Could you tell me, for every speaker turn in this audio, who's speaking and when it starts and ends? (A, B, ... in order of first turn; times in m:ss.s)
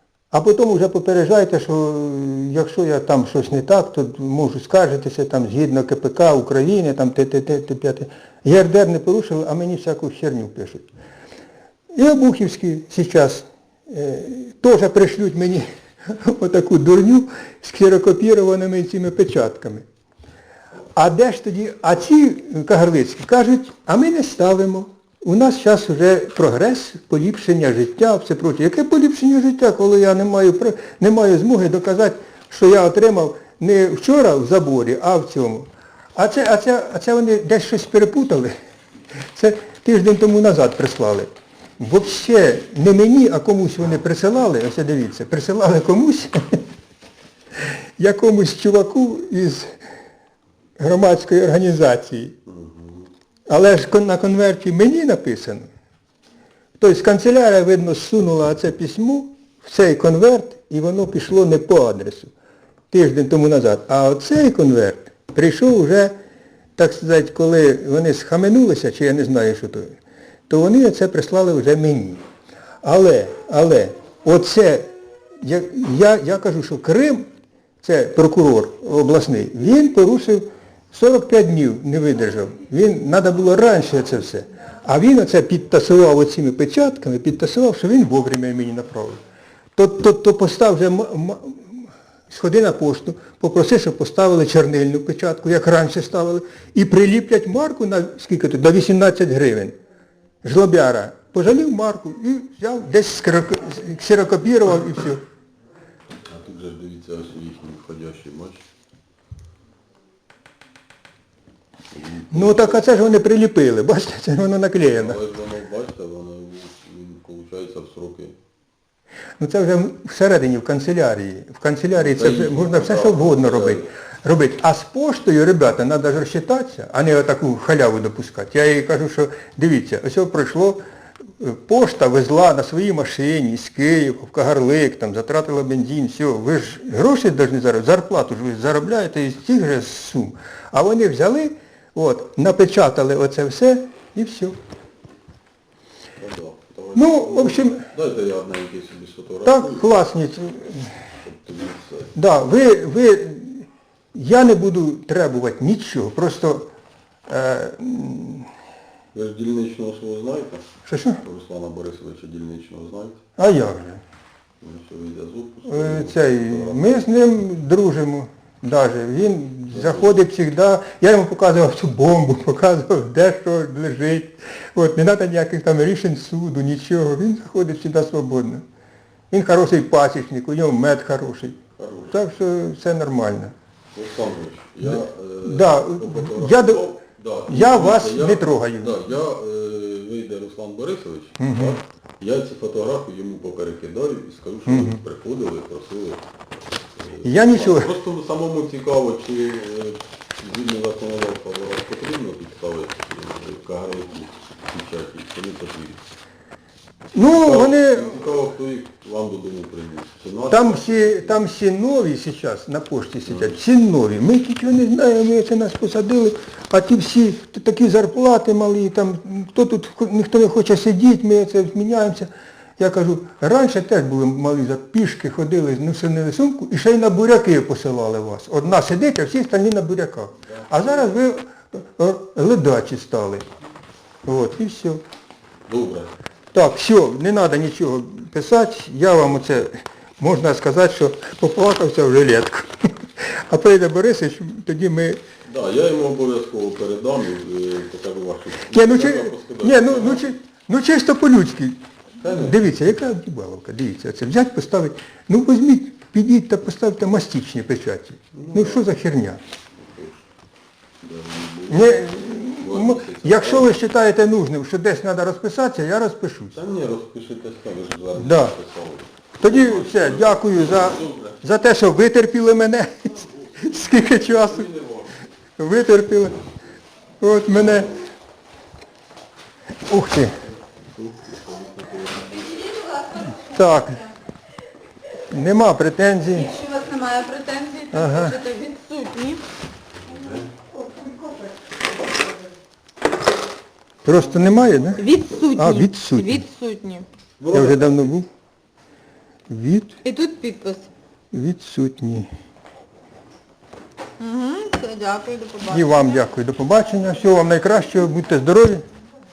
0:00.3-0:10.9 A
0:11.9-0:19.8 A
0:20.9-0:38.5 A
0:39.3-0:46.6 A
0:48.0-0:49.7 A
0:50.8-0:52.4 A
0:52.5-0:53.1 B
0:53.5-0:55.7 A
0:56.8-1:02.3 A
1:02.9-1:06.1 A
1:06.8-1:09.9 A
1:10.5-1:12.2 A
1:12.8-1:17.3 A
1:17.8-1:29.2 A
1:29.8-1:39.8 A
1:40.4-1:45.2 A
1:46.3-1:48.6 B
1:51.9-1:52.8 B
1:52.3-1:55.2 A
1:54.8-1:58.3 B
1:59.4-2:10.8 A
2:01.9-2:03.9 B
2:11.4-2:24.6 A
2:26.2-2:29.9 B
2:26.9-2:27.9 A
2:29.4-2:30.9 A
2:31.2-2:32.1 B
2:32.1-2:36.7 A
2:37.3-2:38.5 A
2:39.1-2:40.6 B
2:40.8-2:41.2 A
2:41.2-2:43.2 B
2:43.4-2:44.0 A
2:44.6-2:47.0 B
2:45.7-2:58.6 A
2:49.7-2:50.1 B
2:59.3-3:03.5 A
3:01.8-3:02.2 B
3:03.9-3:16.2 B
3:04.8-3:06.9 A
3:07.5-3:09.0 A
3:11.4-3:11.8 A
3:14.7-3:15.0 A
3:17.0-3:26.0 B
3:17.2-3:17.9 A
3:27.1-3:28.3 A
3:27.2-3:31.3 B
3:30.5-3:53.4 A
3:33.2-3:33.6 B
3:50.5-3:51.1 B
3:54.2-3:55.0 A
3:55.7-3:56.1 B
3:56.5-4:05.2 A
4:05.5-4:10.4 B
4:08.7-4:19.4 A
4:12.2-4:12.6 B
4:18.3-4:18.8 B
4:19.8-4:20.2 B
4:21.0-4:23.8 B
4:21.7-4:26.6 A
4:26.5-4:31.5 B
4:28.1-4:28.5 A
4:29.4-4:34.7 A
4:33.5-4:35.2 B
4:35.6-4:36.4 A
4:37.2-4:37.9 A
4:39.9-4:40.3 A
4:41.0-4:42.5 B
4:42.4-4:43.6 C
4:43.4-4:44.0 A
4:45.3-4:46.5 A
4:46.3-4:49.4 C
4:47.9-4:48.4 A
4:50.0-4:50.5 B
4:54.0-4:56.4 A
4:54.9-4:57.0 C
4:57.4-4:58.1 B
4:57.5-4:58.3 A
4:59.5-5:00.0 A
5:00.0-5:00.9 C
5:01.3-5:02.3 A
5:04.2-5:06.2 C
5:05.7-5:08.8 A